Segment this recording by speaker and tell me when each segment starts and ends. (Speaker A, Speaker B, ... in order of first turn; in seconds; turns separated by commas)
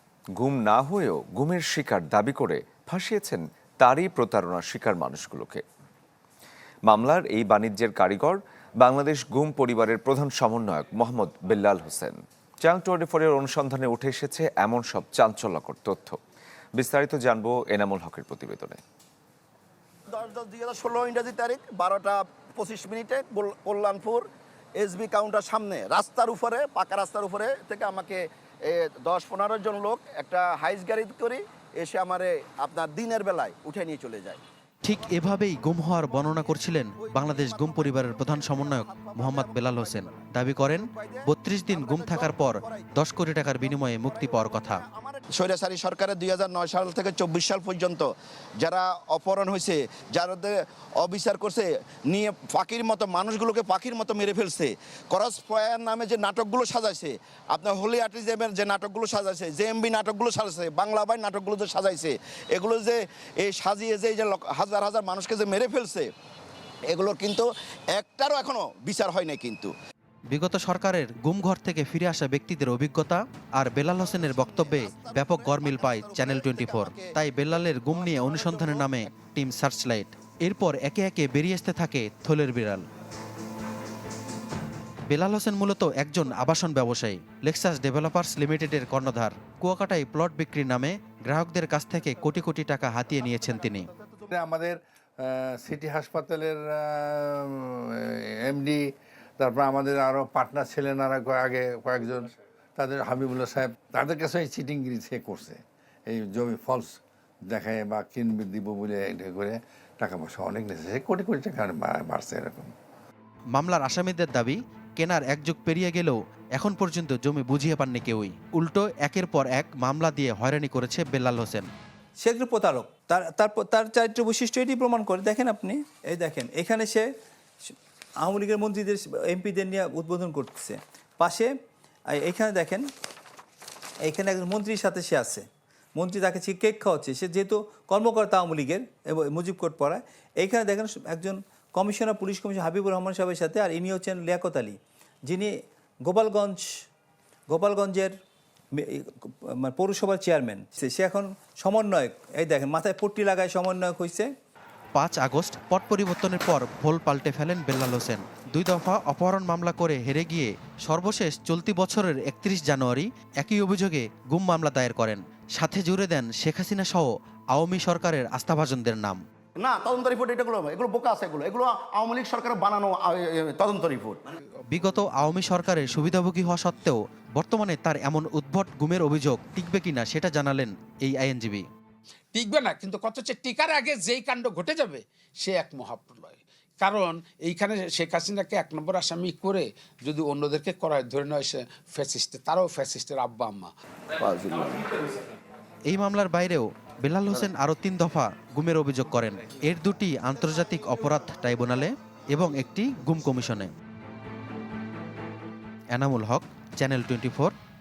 Speaker A: 0.4-5.6, Speaker A: 6.9-16.2, Speaker A: 16.8-18.8, Speaker B: 20.1-24.2, Speaker B: 24.8-66.1, Speaker C: 34.8-44.8, Speaker B: 66.9-69.7, Speaker C: 70.3-82.9, Speaker B: 74.0-77.2, Speaker B: 77.9-78.9, Speaker C: 85.1-93.9, Speaker B: 93.4-94.2, Speaker D: 94.3-98.8, Speaker D: 99.4-112.7, Speaker C: 113.5-121.7, Speaker E: 122.2-127.1, Speaker E: 127.7-131.5, Speaker E: 132.1-132.9, Speaker E: 134.0-146.8, Speaker E: 147.5-148.2, Speaker E: 148.7-154.3, Speaker C: 154.9-169.2, Speaker B: 169.6-174.2, Speaker C: 174.7-181.7, Speaker F: 182.3-193.7, Speaker B: 194.2-194.9, Speaker C: 195.9-203.7, Speaker C: 205.9-207.5